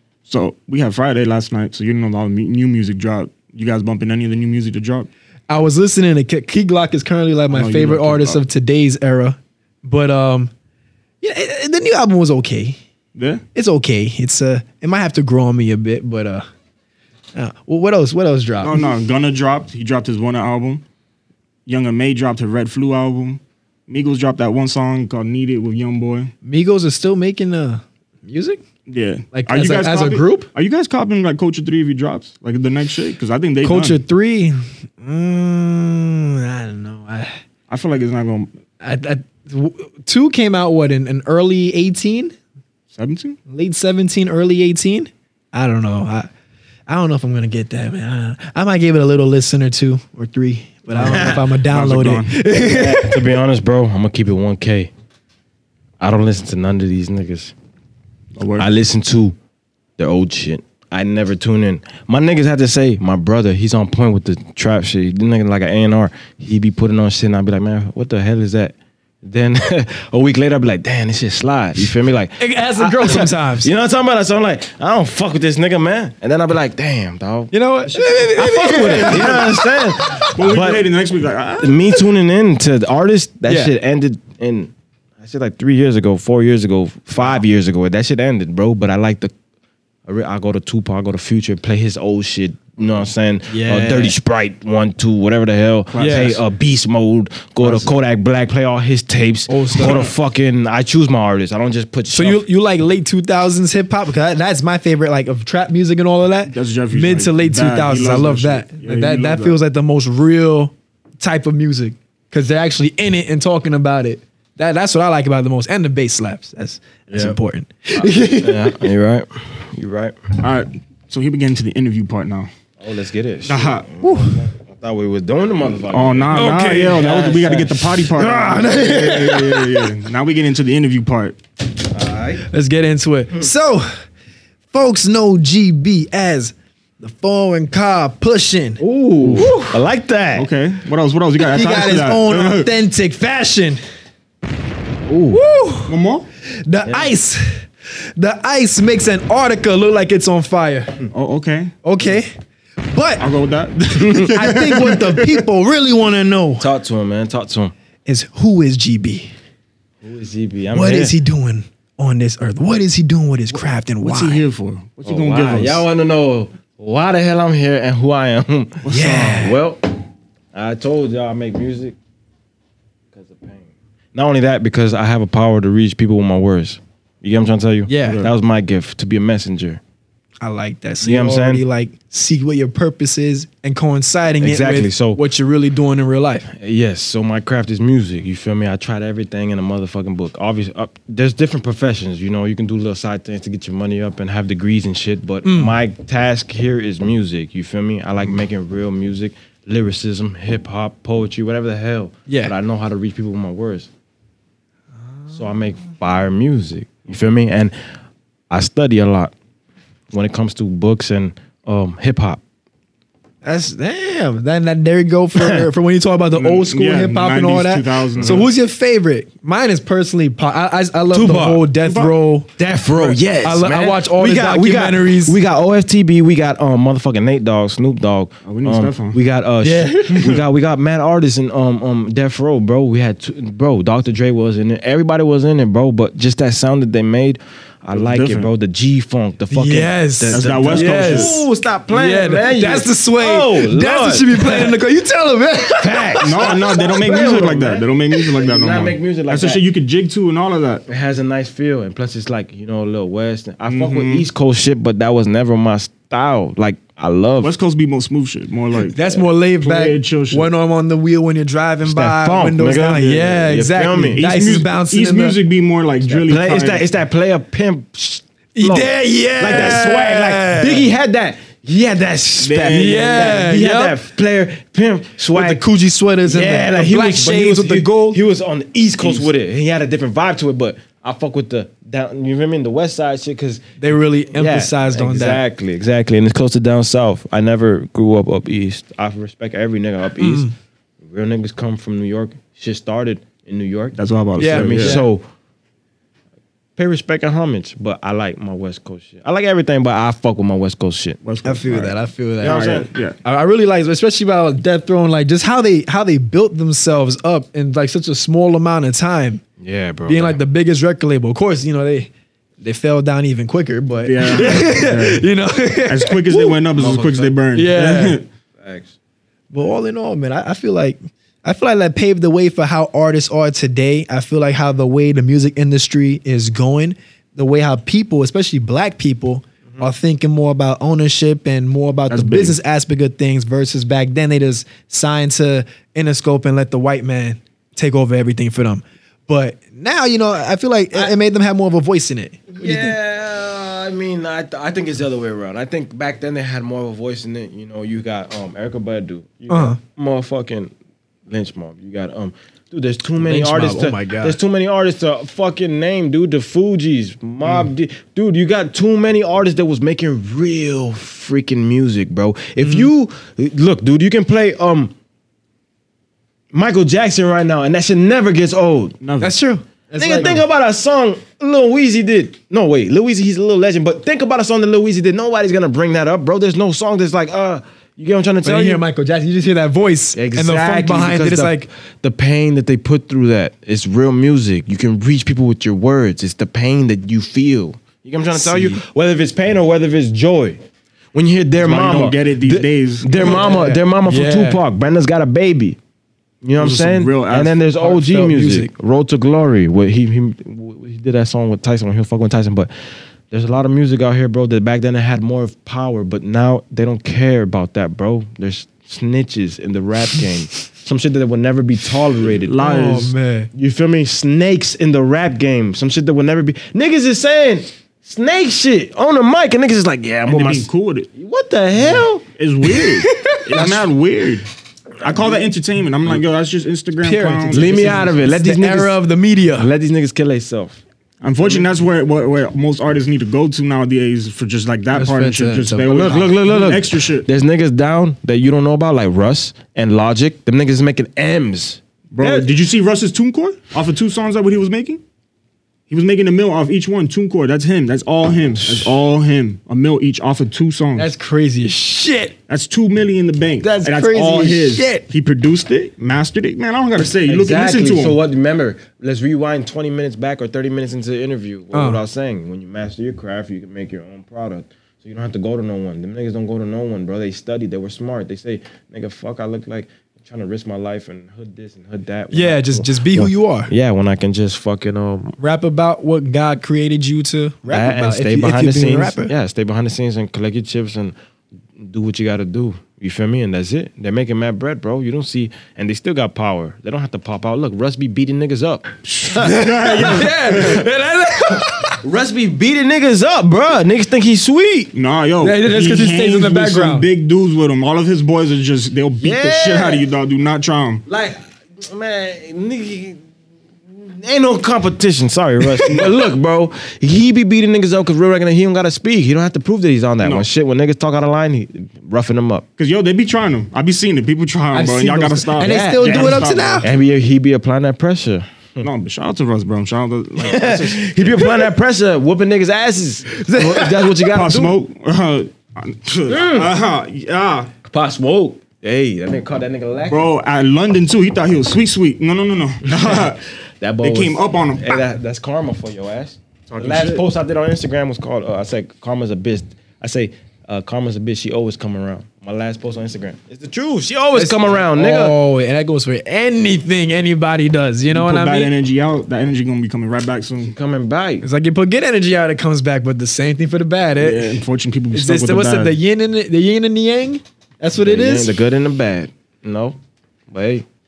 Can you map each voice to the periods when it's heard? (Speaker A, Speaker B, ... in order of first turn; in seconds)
Speaker A: 0.3-5.1, 7.5-8.4, 13.2-13.4, 18.6-20.8, 21.7-26.3, 28.9-34.0, 37.7-38.5, 42.9-43.4, 51.0-52.4, 58.4-58.7, 78.4-79.4, 80.3-82.0, 95.9-96.4, 97.6-97.9, 99.8-100.1, 106.5-109.6, 120.4-122.5, 123.5-123.9, 125.9-131.4, 139.2-139.5, 140.4-142.7, 145.9-146.3, 151.1-151.7, 153.2-155.5, 164.0-165.8, 178.1-178.3, 216.3-218.5, 221.8-222.2, 228.5-229.2, 237.9-238.5, 240.3-241.4, 246.2-250.8, 253.7-254.3, 257.4-259.0, 259.6-260.5, 264.2-266.9, 272.4-273.5, 279.0-279.3, 293.9-295.0, 301.2-303.2, 314.1-315.2, 315.9-318.2, 332.1-332.6, 369.0-369.4, 391.6-393.7, 396.6-397.6, 412.3-413.1, 420.3-421.1, 421.8-424.5, 425.0-428.1, 431.2-437.3, 442.1-445.0, 445.9-451.1, 452.5-458.2, 489.1-490.8, 494.9-501.0, 512.8-516.9, 518.8-521.5, 524.3-527.7, 530.1-533.4, 534.0-535.0, 536.7-537.2, 548.1-550.8, 554.2-556.0
Speaker B: 5.5-10.5, 11.2-12.8, 13.5-16.5, 17.4-18.8, 26.4-28.6, 29.3-30.5, 33.6-37.3, 38.8-42.3, 43.5-46.3, 46.9-53.2, 72.4-73.7, 77.5-80.5, 83.5-83.7, 93.5-94.2, 96.0-96.4, 99.5-100.1, 102.1-118.8, 124.0-124.3, 126.3-127.0, 132.5-133.9, 134.7-139.8, 141.4-143.8, 145.3-145.9, 146.7-147.6, 148.2-150.9, 151.8-152.3, 152.9-153.3, 154.3-156.7, 158.1-159.3, 160.7-164.4, 168.9-169.6, 177.9-178.2, 180.4-186.5, 195.4-195.8, 202.3-202.5, 213.4-222.5, 223.0-225.3, 229.6-230.4, 239.5-246.5, 258.9-265.4, 268.6-270.9, 272.7-274.0, 275.3-278.2, 283.8-285.4, 290.2-290.5, 294.4-295.1, 301.4-309.4, 310.1-312.1, 312.6-316.6, 317.5-318.2, 319.5-342.9, 349.5-349.8, 353.2-354.4, 362.6-362.9, 369.2-370.4, 378.4-381.7, 388.3-388.8, 393.2-394.6, 397.8-398.7, 412.6-413.5, 422.7-423.9, 427.0-429.7, 434.9-436.3, 451.0-452.4, 453.6-455.1, 461.7-462.0, 472.3-473.7, 475.4-479.3, 489.4-492.0, 495.4-497.1, 505.6-505.9, 514.7-516.9, 523.3-524.2, 544.3-548.7, 551.4-554.6, 555.1-558.5
Speaker C: 51.0-51.4, 52.6-54.9, 56.0-57.5, 58.6-59.4, 60.0-80.9, 81.6-89.3, 90.1-102.5, 117.1-117.4, 118.1-120.2, 122.8-129.9, 131.9-132.4, 138.8-140.5, 145.1-145.4, 146.9-147.1, 154.0-154.3, 156.6-157.7, 160.0-161.2, 165.1-169.8, 170.5-172.0, 173.1-179.8, 181.0-181.6, 184.4-185.2, 186.5-203.9, 205.3-207.8, 208.5-209.3, 210.1-212.4, 215.4-215.7, 218.2-218.5, 221.1-221.7, 222.6-244.8, 245.8-249.6, 250.9-257.5, 261.8-264.2, 266.2-275.6, 276.2-283.8, 284.3-290.5, 291.0-295.2, 296.8-301.2, 302.4-302.9, 309.6-310.4, 316.8-317.4, 318.6-318.9, 342.6-350.7, 351.3-364.9, 366.5-369.0, 370.0-378.8, 380.1-390.6, 391.1-395.8, 396.4-402.7, 403.3-412.6, 413.6-422.2, 425.0-425.4, 427.5-429.0, 429.6-430.8, 435.9-442.5, 457.3-475.4, 477.7-481.1, 481.8-490.9, 491.4-494.9, 499.2-500.0, 501.1-503.2, 504.0-512.6, 515.6-518.9, 520.4-524.8, 526.3-526.7, 527.9-530.3, 532.9-533.3, 533.8-545.4, 550.6-551.5, 558.0-560.0, 560.5-560.9